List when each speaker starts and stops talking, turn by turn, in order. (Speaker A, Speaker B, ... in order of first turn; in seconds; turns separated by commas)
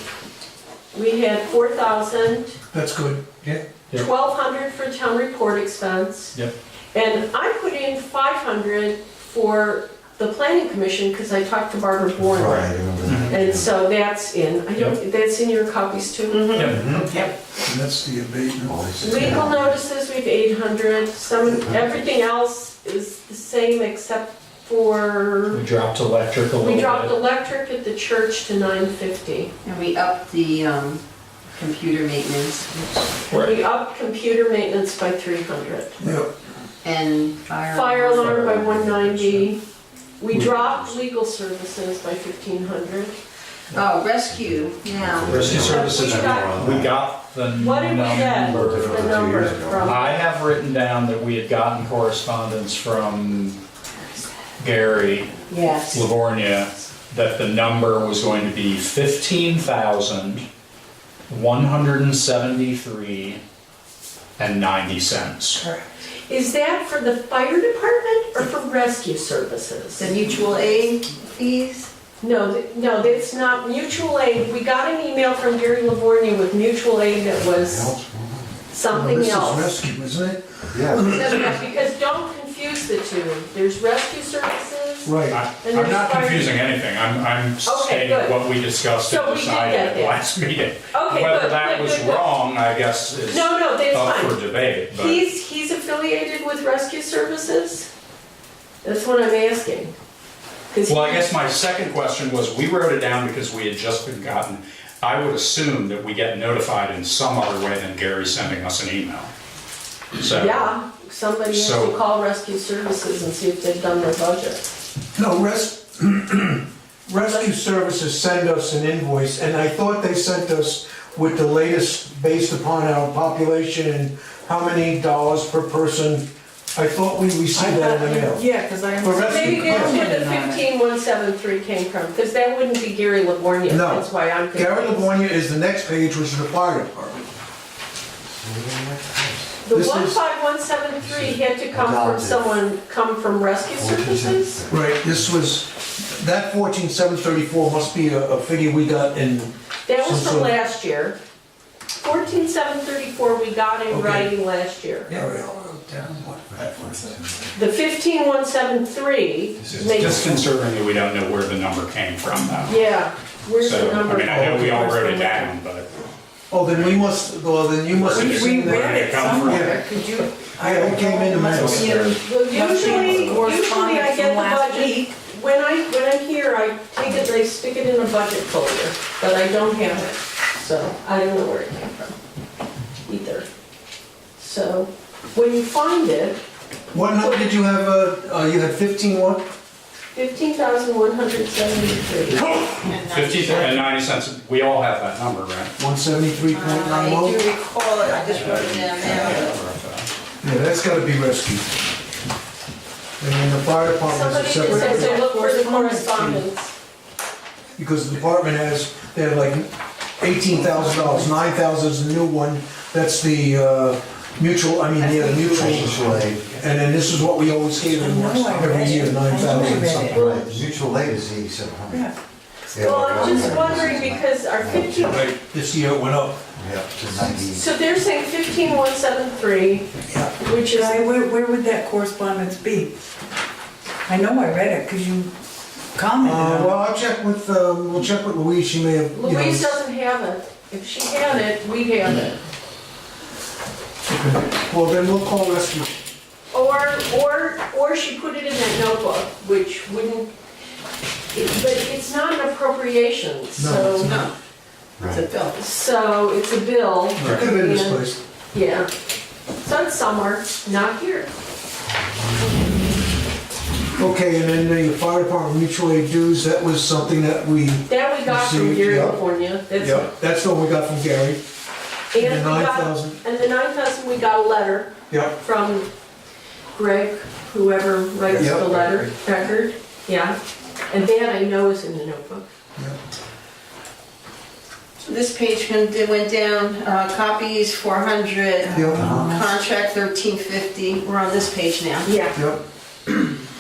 Speaker A: 0.9-2.6, Speaker B: 2.7-3.6, Speaker A: 3.9-6.3, Speaker A: 6.9-17.3, Speaker C: 12.2-13.8, Speaker D: 13.0-13.3, Speaker E: 16.3-17.3, Speaker D: 16.5-17.0, Speaker B: 16.7-17.1, Speaker B: 17.6-19.4, Speaker C: 18.7-19.8, Speaker A: 19.0-25.6, Speaker C: 21.5-22.1, Speaker D: 25.5-27.1, Speaker A: 26.6-29.5, Speaker E: 29.6-33.1, Speaker D: 33.3-33.5, Speaker A: 33.3-36.0, Speaker B: 36.0-36.3, Speaker E: 36.8-38.7, Speaker A: 37.7-39.6, Speaker D: 38.3-39.5, Speaker A: 40.2-43.1, Speaker E: 43.7-45.5, Speaker C: 44.3-47.0, Speaker D: 45.3-53.6, Speaker A: 45.5-46.7, Speaker A: 47.5-50.2, Speaker C: 48.4-50.0, Speaker D: 54.6-60.5, Speaker A: 55.5-56.1, Speaker D: 61.3-63.4, Speaker D: 64.4-65.6, Speaker A: 66.3-70.1, Speaker E: 70.0-71.9, Speaker A: 72.2-78.0, Speaker C: 77.4-78.6, Speaker A: 78.7-79.7, Speaker B: 78.9-81.5, Speaker C: 80.7-81.1, Speaker A: 81.2-86.6, Speaker E: 81.2-81.6, Speaker B: 85.0-85.4, Speaker D: 85.3-95.3, Speaker A: 87.6-88.4, Speaker A: 89.0-90.2, Speaker A: 90.9-92.3, Speaker A: 93.3-94.4, Speaker A: 94.9-97.9, Speaker A: 98.8-100.0, Speaker A: 100.7-101.3, Speaker D: 100.9-109.3, Speaker D: 110.2-110.7, Speaker A: 110.3-114.6, Speaker D: 111.5-112.0, Speaker B: 115.2-128.4, Speaker F: 127.5-130.7, Speaker B: 129.0-130.0, Speaker A: 129.2-135.1, Speaker B: 133.7-137.3, Speaker C: 138.3-139.6, Speaker A: 139.6-144.6, Speaker B: 139.7-140.2, Speaker C: 141.0-142.6, Speaker C: 143.7-145.3, Speaker B: 144.7-150.5, Speaker A: 149.9-151.2, Speaker A: 152.0-155.1, Speaker B: 153.9-154.3, Speaker B: 155.1-157.2, Speaker C: 156.5-157.5, Speaker A: 157.5-160.4, Speaker C: 159.6-160.4, Speaker D: 159.7-162.8, Speaker A: 162.7-165.5, Speaker D: 163.6-166.0, Speaker B: 164.3-164.7, Speaker B: 166.5-169.8, Speaker D: 166.7-167.1, Speaker D: 167.9-169.8, Speaker F: 168.1-175.1, Speaker B: 170.6-172.0, Speaker D: 171.5-173.5, Speaker A: 171.8-182.2, Speaker A: 183.1-183.5, Speaker A: 184.4-186.4, Speaker B: 186.9-189.5, Speaker A: 187.2-187.5, Speaker A: 190.1-192.4, Speaker E: 192.6-193.9, Speaker D: 193.0-195.7, Speaker B: 195.8-197.5, Speaker E: 196.5-199.6, Speaker D: 198.2-200.1, Speaker B: 200.4-201.7, Speaker B: 203.2-205.2, Speaker A: 204.1-206.7, Speaker F: 204.7-206.4, Speaker B: 207.8-220.3, Speaker F: 210.7-211.2, Speaker F: 215.0-215.8, Speaker C: 215.5-216.6, Speaker F: 217.9-220.5, Speaker C: 220.1-222.1, Speaker F: 221.9-222.2, Speaker C: 222.7-225.2, Speaker A: 222.8-225.3, Speaker F: 223.2-223.7, Speaker B: 225.1-226.4, Speaker C: 226.6-227.8, Speaker A: 227.4-231.0, Speaker F: 230.7-232.9, Speaker F: 234.1-235.3, Speaker F: 235.9-236.8, Speaker B: 236.2-239.8, Speaker A: 239.1-242.4, Speaker B: 244.1-245.9, Speaker A: 246.5-250.3, Speaker A: 251.3-254.2, Speaker B: 253.6-254.3, Speaker E: 254.0-254.3, Speaker C: 255.0-255.3, Speaker E: 255.0-255.6, Speaker A: 255.5-258.9, Speaker B: 257.2-258.2, Speaker D: 257.2-257.5, Speaker A: 259.6-261.3, Speaker B: 264.0-269.2, Speaker A: 267.9-270.1, Speaker B: 269.8-271.4, Speaker A: 272.1-275.9, Speaker B: 272.2-273.2, Speaker B: 275.1-275.4, Speaker A: 276.7-280.4, Speaker B: 278.3-279.1, Speaker A: 280.9-282.4, Speaker E: 285.0-292.1, Speaker B: 288.7-289.3, Speaker F: 288.8-289.5, Speaker A: 292.0-292.4, Speaker B: 292.4-292.6